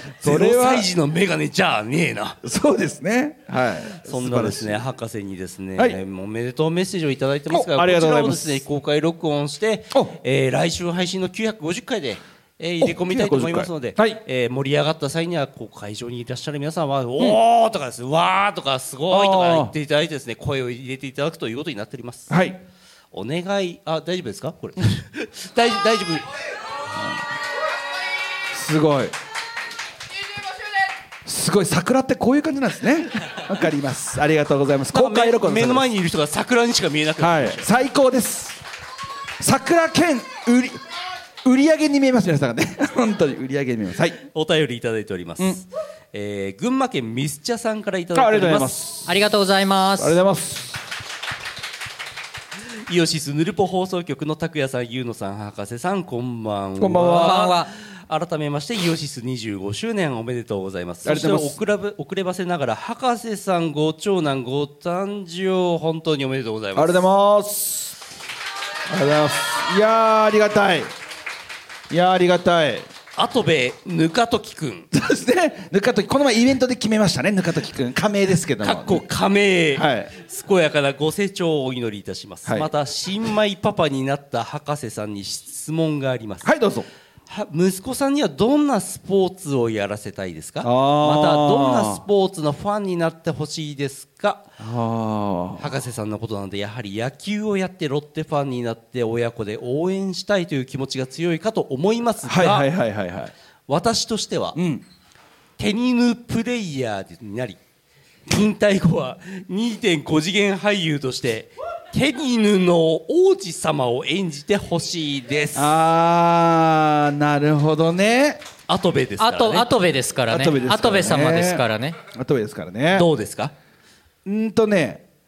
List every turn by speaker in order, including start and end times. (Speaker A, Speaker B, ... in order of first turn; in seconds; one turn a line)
Speaker A: 0.2-0.9
Speaker B: 0.2-2.4
Speaker A: 2.4-4.8
Speaker B: 3.9-22.3
Speaker A: 7.5-8.6
Speaker A: 12.8-14.2
Speaker A: 19.1-19.7
Speaker A: 22.3-22.6
Speaker B: 23.1-26.3
Speaker A: 28.5-29.1
Speaker A: 31.2-35.9
Speaker B: 34.9-37.7
Speaker A: 37.2-38.6
Speaker A: 39.4-40.8
Speaker A: 41.4-44.1
Speaker B: 44.2-48.8
Speaker A: 48.1-49.1
Speaker C: 49.0-50.2
Speaker A: 50.0-50.8
Speaker B: 52.9-67.0
Speaker A: 56.8-57.5
Speaker C: 57.1-57.7
Speaker A: 61.0-61.6
Speaker A: 66.8-68.0
Speaker A: 68.9-70.9
Speaker A: 71.9-72.9
Speaker B: 73.2-74.9
Speaker A: 74.9-79.0
Speaker B: 78.6-86.5
Speaker A: 79.7-80.1
Speaker A: 86.4-86.9
Speaker B: 87.3-94.5
Speaker A: 90.6-92.0
Speaker A: 94.6-95.7
Speaker B: 95.6-102.7
Speaker A: 102.2-103.3
Speaker B: 103.7-104.6
Speaker A: 104.5-104.8
Speaker B: 105.6-107.6
Speaker B: 108.3-115.7
Speaker A: 115.5-118.5
Speaker B: 118.7-119.7
Speaker C: 119.2-122.0
Speaker A: 120.3-123.1
Speaker B: 122.9-123.5
Speaker A: 124.2-125.0